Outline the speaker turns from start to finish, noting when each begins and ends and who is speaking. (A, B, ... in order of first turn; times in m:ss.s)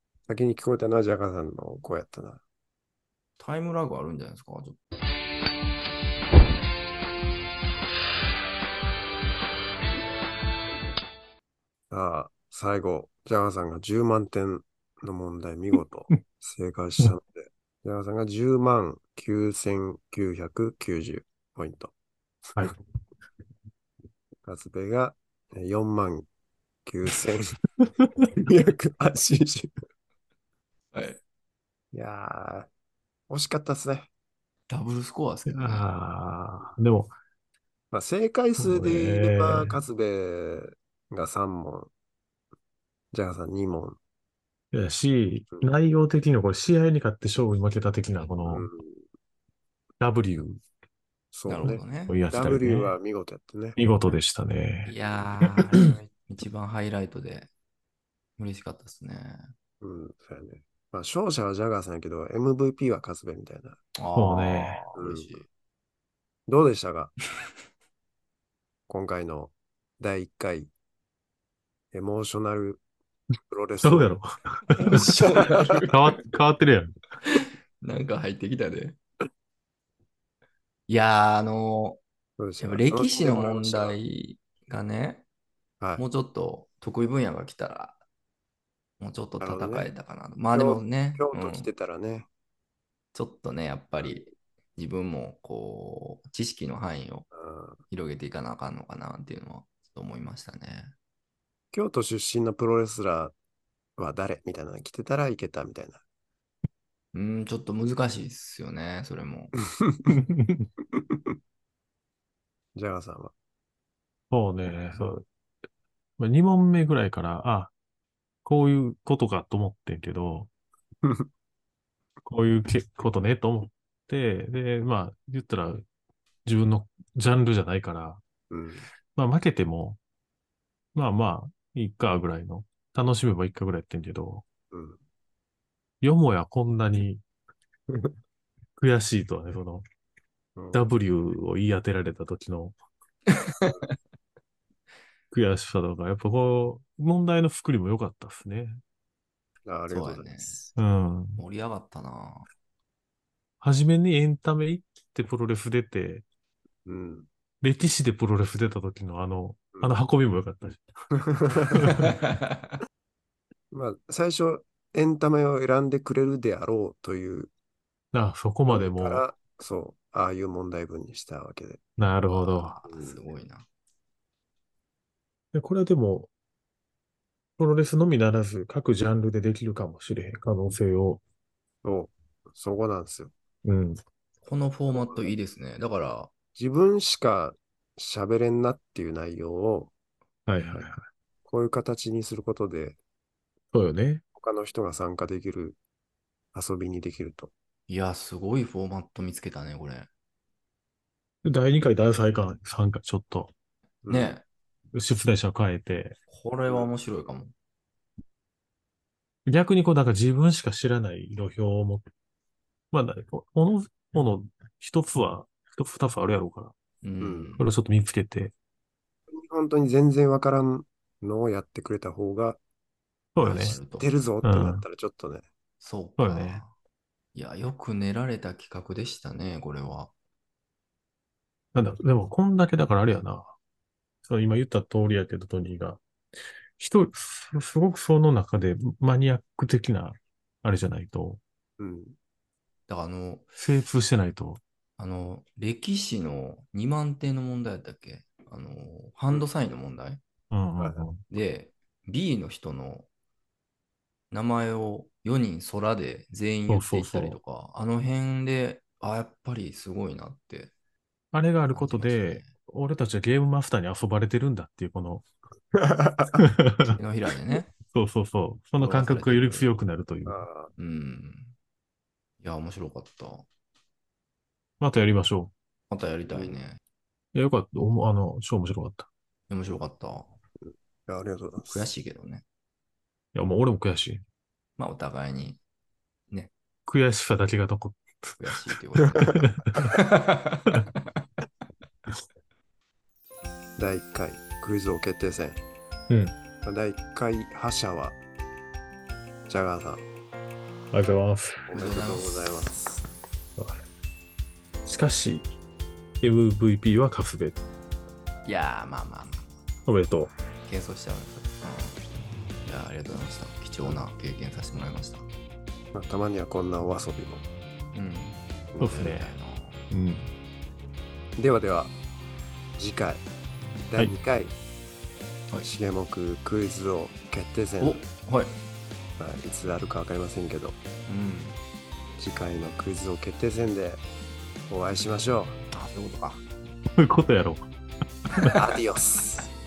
0:00.3-0:02.4 A
0:03.4-0:04.8 B
0:11.9-0:21.9 A
0:24.4-0:26.3 A
0:26.9-0:27.6 A
0:28.4-0:29.7 A
0:30.9-0:31.2 B
0:31.9-0:32.7 A
0:33.3-0:34.1 A
0:34.7-0:35.9 B
0:35.5-0:37.1 C
0:37.9-0:41.9 A
0:38.6-0:39.8 C
0:43.1-0:44.0 A
0:44.7-0:48.7 C
0:48.5-0:49.0 A
0:50.0-0:50.6 C
0:51.3-0:53.8 A
0:51.5-0:52.2 B
0:51.6-0:52.9 C
0:53.8-0:54.9 C
0:54.9-0:57.5 B
0:58.4-0:59.4 B
0:59.8-1:03.8 A
1:04.0-1:05.5 B
1:04.2-1:04.8 C
1:05.0-1:05.3 A
1:06.5-1:07.1 A
1:08.9-1:10.7 A
1:11.9-1:12.8 A
1:13.5-1:14.1 A
1:13.8-1:15.2 C
1:14.8-1:16.2 B
1:15.9-1:17.0 C
1:17.3-1:19.0 B
1:20.9-1:22.0 B
1:22.4-1:24.0 A
1:22.6-1:25.2 B
1:26.0-1:28.0 B
1:29.0-1:31.7 B
1:29.4-1:29.9 A
1:30.5-1:32.3 A
1:33.1-1:37.3 B
1:37.3-1:37.8 A
1:37.9-1:40.9 B
1:41.7-1:43.3 A
1:44.0-1:46.0 A
1:47.1-1:49.6 B
1:49.8-1:50.1 A
1:50.1-1:50.7 C
1:52.8-1:53.3 A
1:54.3-1:55.2 C
1:56.2-1:57.7 C
1:58.4-2:00.5 C
2:02.2-2:05.8 C
2:06.5-2:08.2 C
2:08.5-2:08.9 A
2:09.2-2:10.0 C
2:11.0-2:14.4 C
2:14.7-2:15.0 A
2:16.0-2:17.2 C
2:18.8-2:19.8 C
2:20.6-2:20.8 A
2:20.7-2:22.7 C
2:23.4-2:23.8 B
2:25.3-2:28.8 C
2:29.7-2:30.7 A
2:29.9-2:30.6 B
2:30.8-2:31.4 C
2:31.4-2:32.5 B
2:33.6-2:36.2 C
2:36.9-2:37.3 A
2:37.6-2:40.8 C
2:41.3-2:41.9 A
2:41.6-2:42.2 C
2:42.1-2:42.7 B
2:43.7-2:47.5 A
2:48.1-2:49.2 C
2:48.7-2:51.8 A
2:52.0-2:52.8 C
2:52.4-2:53.7 B
2:52.9-2:53.2 A
2:55.5-2:56.3 C
2:57.6-3:01.2 C
3:01.8-3:03.3 A
3:03.6-3:04.0 C
3:04.4-3:06.3 B
3:04.9-3:05.3 A
3:06.6-3:09.9 A
3:10.5-3:11.0 C
3:11.5-3:13.0 A
3:13.7-3:14.2 C
3:14.4-3:15.8 A
3:16.5-3:17.5 A
3:17.9-3:20.1 B
3:21.4-3:23.5 C
3:24.0-3:24.4 A
3:24.1-3:24.4 B
3:24.9-3:26.2 C
3:26.3-3:27.5 B
3:29.5-3:32.0 C
3:32.9-3:36.7 C
3:37.0-3:37.7 B
3:37.2-3:37.5 A
3:37.6-3:38.5 C
3:39.3-3:42.6 A
3:43.4-3:43.8 C
3:43.4-3:45.5 A
3:43.4-3:44.1 B
3:44.4-3:44.8 C
3:45.8-3:46.7 B
3:46.2-3:46.6 C
3:47.4-3:50.1 B
3:51.7-3:53.6 C
3:54.3-3:56.0 C
3:56.8-4:01.4 C
4:01.8-4:02.2 A
4:02.9-4:03.5 B
4:03.6-4:04.6 C
4:05.0-4:10.2 B
4:10.5-4:11.2 C
4:11.3-4:13.1 B
4:14.3-4:20.7 B
4:16.7-4:17.4 C
4:21.3-4:25.3 C
4:21.7-4:22.5 B
4:25.8-4:26.4 A
4:26.3-4:27.0 C
4:26.9-4:27.7 B
4:27.8-4:30.4 C
4:28.8-4:29.7 B
4:30.3-4:30.7 A
4:30.8-4:31.5 B
4:32.4-4:33.5 B
4:34.8-4:35.5 C
4:35.9-4:36.8 B
4:37.4-4:39.1 C
4:39.5-4:40.3 B
4:40.7-4:41.9 A
4:41.7-4:42.4 B
4:43.4-4:44.2 C
4:44.8-4:45.6 B
4:46.9-4:50.0 C
4:48.4-4:50.9 B
4:53.8-4:55.6 A
4:56.1-4:56.3 C
4:56.6-4:58.2 A
4:59.5-5:00.0 A
5:00.9-5:01.7 C
5:01.7-5:03.0 A
5:01.7-5:02.7 B
5:04.9-5:05.5 C
5:06.2-5:07.6 C
5:08.4-5:09.5 B
5:09.9-5:10.3 C
5:10.6-5:12.0 B
5:12.6-5:15.3 B
5:15.9-5:17.4 A
5:17.9-5:19.8 B
5:18.8-5:19.3 C
5:19.9-5:20.3 C
5:21.4-5:21.9 A
5:22.8-5:23.2 A
5:23.9-5:24.5 A
5:25.6-5:28.0 A
5:27.8-5:28.5 B
5:29.2-5:30.8 A
5:31.1-5:31.6 B
5:32.2-5:34.0 A
5:34.7-5:35.6 A
5:35.7-5:36.4 B
5:37.0-5:37.6 C
5:38.3-5:38.6 C
5:38.6-5:39.5 A